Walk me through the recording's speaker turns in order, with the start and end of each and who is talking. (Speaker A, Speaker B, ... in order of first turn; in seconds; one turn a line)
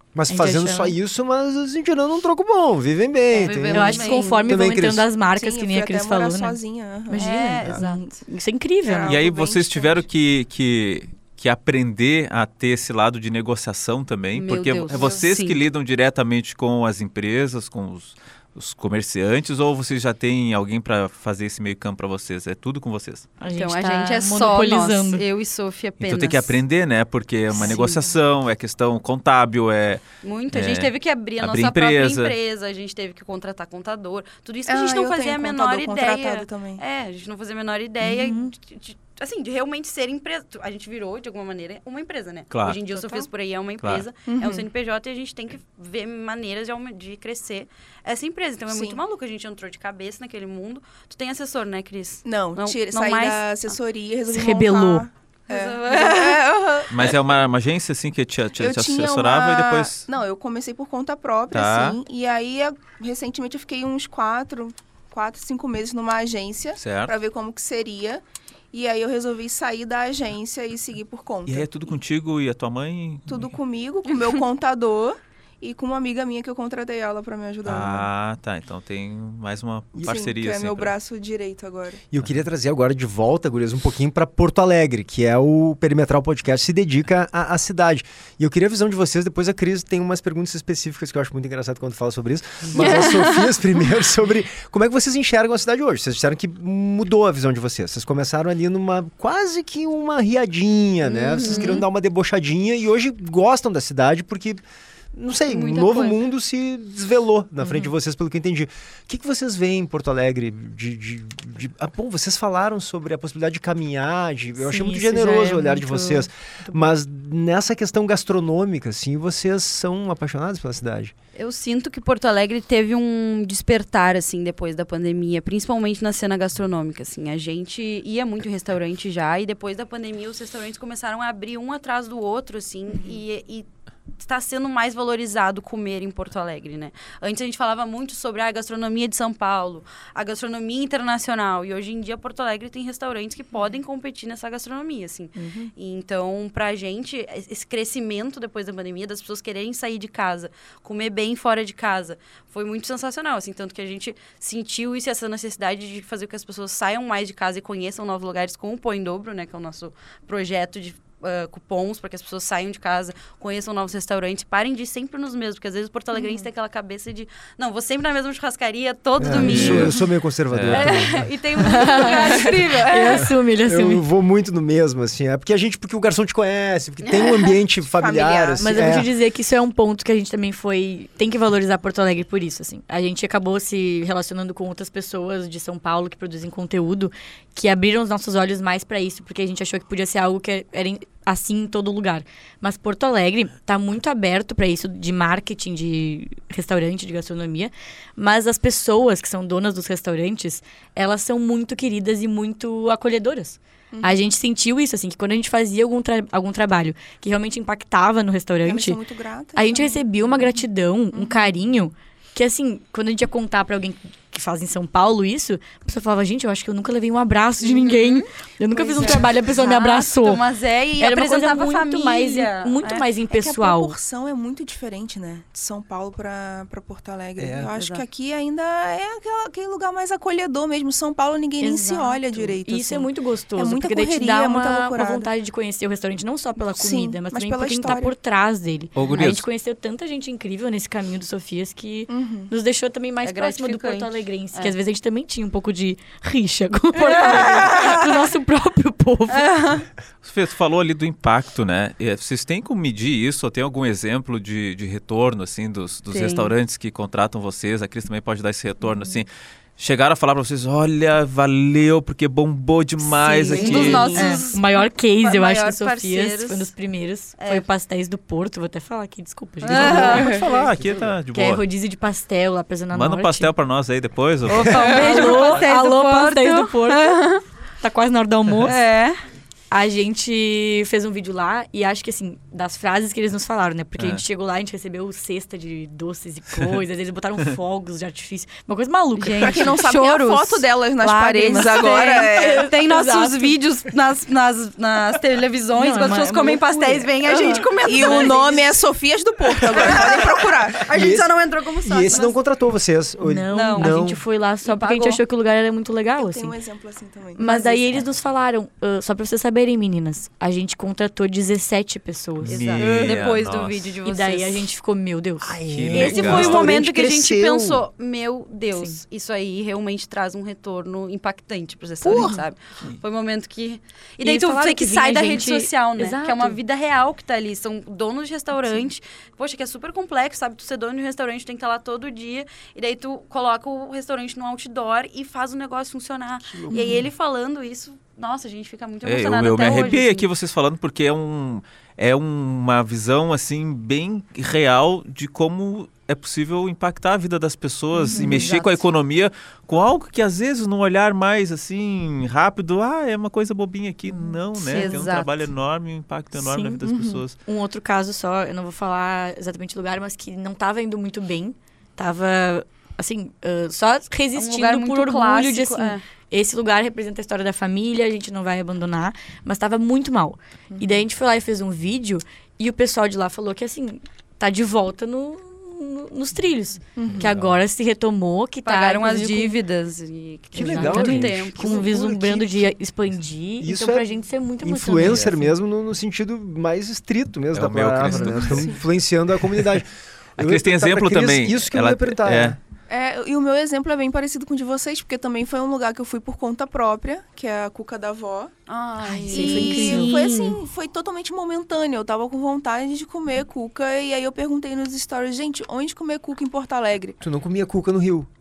Speaker A: 0.1-5.1
Speaker B: 0.3-1.0
Speaker C: 3.3-4.6
Speaker B: 3.7-9.2
Speaker D: 5.3-7.3
Speaker C: 7.1-8.2
Speaker D: 8.8-10.0
Speaker E: 9.1-23.3
Speaker C: 14.3-15.6
Speaker B: 23.4-25.2
Speaker C: 23.5-26.6
Speaker E: 26.0-32.3
Speaker C: 27.5-28.0
Speaker C: 30.2-53.6
Speaker D: 34.6-36.8
Speaker B: 38.0-38.5
Speaker E: 42.5-42.8
Speaker D: 44.3-44.7
Speaker D: 48.7-49.0
Speaker D: 52.2-57.2
Speaker B: 54.3-55.0
Speaker C: 55.5-56.4
Speaker E: 56.9-60.0
Speaker D: 58.6-71.9
Speaker E: 61.5-62.0
Speaker E: 66.8-67.1
Speaker E: 71.5-73.5
Speaker D: 73.3-78.1
Speaker E: 77.6-80.9
Speaker D: 80.0-82.0
Speaker A: 82.1-104.6
Speaker C: 92.7-93.5
Speaker C: 101.1-101.8
Speaker B: 101.4-101.8
Speaker A: 105.1-121.1
Speaker C: 105.5-106.2
Speaker B: 107.6-107.9
Speaker B: 114.6-116.9
Speaker C: 121.3-133.7
Speaker C: 134.2-170.0
Speaker B: 145.3-145.7
Speaker A: 169.2-171.3
Speaker E: 169.3-169.9
Speaker E: 170.5-171.1
Speaker C: 170.7-173.3
Speaker B: 171.6-174.0
Speaker D: 172.1-172.5
Speaker A: 173.6-179.1
Speaker C: 177.0-177.5
Speaker D: 177.9-178.7
Speaker B: 178.6-209.0
Speaker D: 203.9-204.2
Speaker D: 208.6-210.1
Speaker B: 209.5-220.4
Speaker D: 211.1-211.4
Speaker C: 217.6-223.1
Speaker B: 221.0-223.9
Speaker D: 223.3-235.3
Speaker A: 227.4-227.7
Speaker C: 227.7-228.0
Speaker B: 231.6-249.7
Speaker D: 236.6-238.1
Speaker E: 238.9-239.4
Speaker D: 242.1-242.5
Speaker C: 243.2-244.8
Speaker C: 247.0-248.1
Speaker C: 249.3-249.8
Speaker E: 250.2-264.3
Speaker C: 256.1-256.5
Speaker C: 263.2-266.7
Speaker B: 263.3-270.5
Speaker C: 267.4-267.7
Speaker C: 269.6-270.6
Speaker E: 269.6-271.6
Speaker B: 271.3-273.5
Speaker E: 272.9-275.4
Speaker C: 274.5-277.4
Speaker B: 274.5-277.3
Speaker B: 277.8-278.8
Speaker C: 278.6-279.2
Speaker B: 279.7-289.8
Speaker E: 284.0-284.2
Speaker C: 289.1-298.7
Speaker D: 289.4-292.7
Speaker B: 291.5-293.6
Speaker B: 295.7-298.5
Speaker D: 297.2-300.9
Speaker C: 299.7-302.4
Speaker A: 300.9-304.2
Speaker B: 303.2-306.6
Speaker C: 303.5-304.0
Speaker C: 304.6-305.2
Speaker D: 306.2-307.9
Speaker B: 307.4-312.6
Speaker E: 312.4-313.9
Speaker C: 312.5-314.7
Speaker B: 314.0-316.6
Speaker A: 315.4-317.8
Speaker E: 315.7-316.7
Speaker C: 315.9-340.3
Speaker B: 318.7-319.0
Speaker A: 322.0-322.4
Speaker B: 322.1-322.4
Speaker B: 324.2-326.6
Speaker A: 336.5-337.0
Speaker B: 336.7-337.0
Speaker E: 339.0-357.4
Speaker B: 348.1-348.6
Speaker C: 348.1-348.7
Speaker B: 354.1-355.1
Speaker C: 354.6-355.4
Speaker B: 356.3-379.6
Speaker C: 364.3-366.0
Speaker D: 376.9-377.3
Speaker E: 377.2-377.5
Speaker C: 378.6-381.9
Speaker B: 380.5-385.5
Speaker A: 380.5-382.7
Speaker A: 383.6-384.1
Speaker A: 384.6-392.6
Speaker E: 385.0-385.3
Speaker E: 387.5-388.7
Speaker D: 388.1-388.8
Speaker E: 390.4-392.6
Speaker D: 392.9-398.5
Speaker C: 398.7-400.6
Speaker B: 399.0-400.2
Speaker D: 399.3-407.2
Speaker A: 407.2-408.3